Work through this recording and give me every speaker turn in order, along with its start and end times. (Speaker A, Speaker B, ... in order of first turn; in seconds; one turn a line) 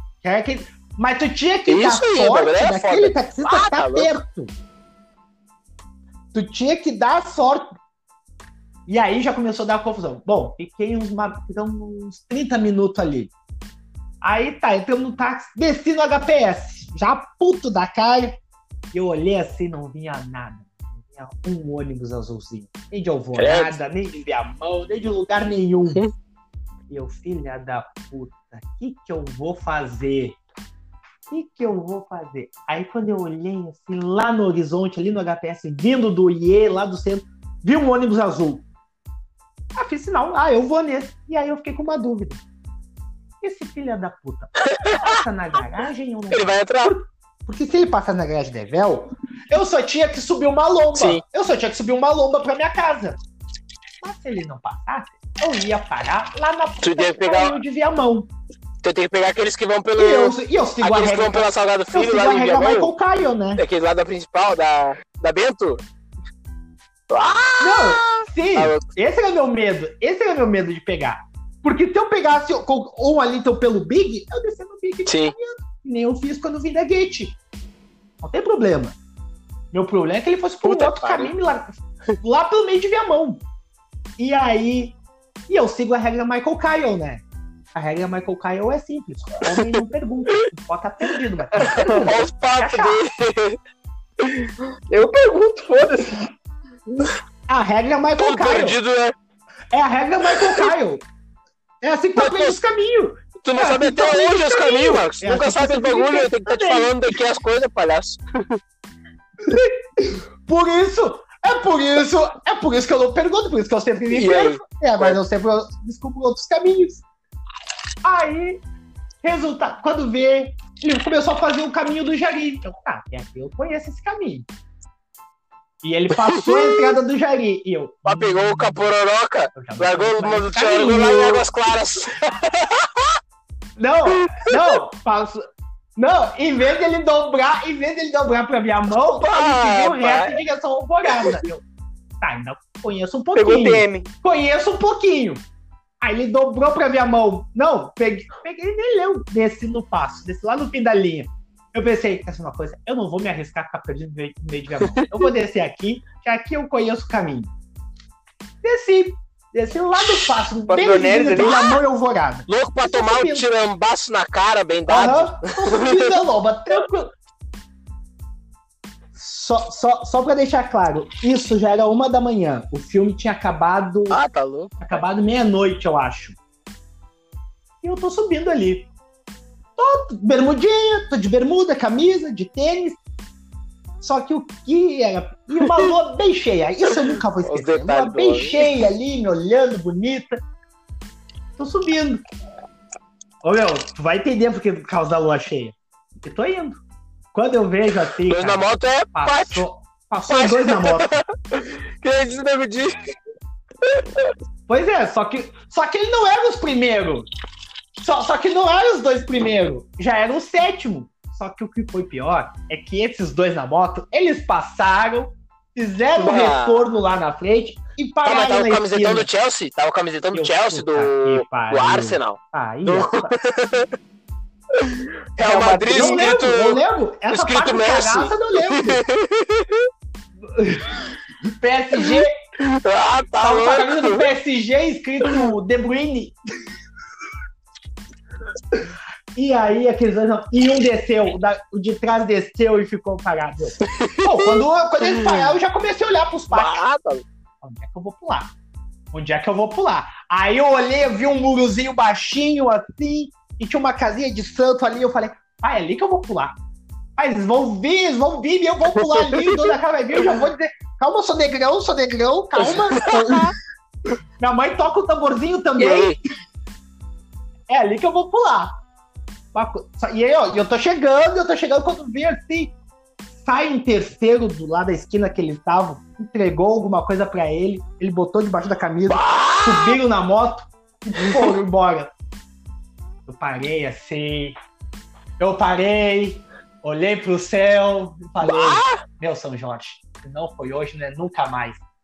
Speaker A: 0.2-4.5
Speaker B: 1.7-4.1
Speaker A: 6.3-7.7
Speaker A: 8.9-13.3
Speaker A: 14.2-18.4
Speaker A: 18.9-26.0
Speaker B: 23.4-23.8
Speaker A: 26.9-30.4
Speaker A: 31.3-38.7
Speaker A: 39.8-42.4
Speaker A: 43.4-53.2
Speaker B: 44.6-45.2
Speaker B: 46.3-47.0
Speaker B: 51.0-51.2
Speaker A: 54.0-58.3
Speaker B: 56.8-57.6
Speaker B: 58.8-62.9
Speaker A: 60.0-63.6
Speaker B: 63.6-65.8
Speaker B: 67.1-68.9
Speaker A: 67.6-77.4
Speaker B: 75.1-75.3
Speaker A: 78.2-79.0
Speaker A: 79.7-83.4
Speaker B: 80.7-81.3
Speaker A: 84.2-85.0
Speaker A: 85.5-87.2
Speaker A: 87.8-93.0
Speaker B: 91.6-93.6
Speaker C: 91.6-92.0
Speaker B: 94.2-94.5
Speaker C: 94.9-96.3
Speaker A: 97.5-98.8
Speaker B: 98.2-99.2
Speaker A: 99.7-101.0
Speaker B: 100.3-100.7
Speaker A: 101.8-107.2
Speaker B: 102.2-102.6
Speaker B: 103.4-108.6
Speaker A: 109.4-117.0
Speaker B: 114.1-115.2
Speaker A: 118.0-118.6
Speaker A: 119.2-124.5
Speaker A: 125.8-128.8
Speaker B: 126.1-127.0
Speaker B: 128.1-133.2
Speaker A: 129.6-131.5
Speaker A: 133.8-141.7
Speaker B: 134.3-134.6
Speaker B: 139.1-140.4
Speaker A: 142.2-145.4
Speaker C: 143.4-144.1
Speaker A: 146.0-157.5
Speaker B: 154.9-155.3
Speaker A: 158.6-163.5
Speaker B: 160.0-160.4
Speaker C: 160.7-161.6
Speaker B: 161.4-161.8
Speaker B: 162.5-166.2
Speaker A: 164.9-167.1
Speaker A: 169.2-174.2
Speaker B: 174.1-174.8
Speaker A: 174.8-176.4
Speaker A: 177.8-178.9
Speaker A: 179.8-183.0
Speaker A: 184.0-190.4
Speaker B: 187.4-188.8
Speaker A: 191.6-192.2
Speaker A: 193.4-196.8
Speaker A: 197.3-201.2
Speaker B: 198.3-199.7
Speaker B: 200.3-203.1
Speaker B: 203.8-204.3
Speaker A: 204.7-207.3
Speaker A: 208.0-219.3
Speaker B: 216.2-216.9
Speaker B: 218.2-223.9
Speaker A: 220.3-223.3
Speaker B: 224.8-229.9
Speaker C: 225.4-226.3
Speaker A: 225.9-229.0
Speaker A: 230.4-232.3
Speaker B: 231.9-234.3
Speaker A: 233.4-236.3
Speaker B: 235.2-235.5
Speaker A: 239.3-246.8
Speaker B: 243.8-244.7
Speaker B: 246.5-247.2
Speaker A: 247.6-248.5
Speaker A: 249.1-256.6
Speaker A: 257.2-263.6
Speaker B: 259.0-259.7
Speaker B: 262.6-263.5
Speaker A: 264.4-266.2
Speaker B: 265.8-266.2
Speaker A: 267.7-268.8
Speaker A: 269.5-272.8
Speaker A: 273.4-282.1
Speaker B: 279.1-280.0
Speaker A: 283.3-284.6
Speaker A: 285.4-291.8
Speaker B: 288.4-289.0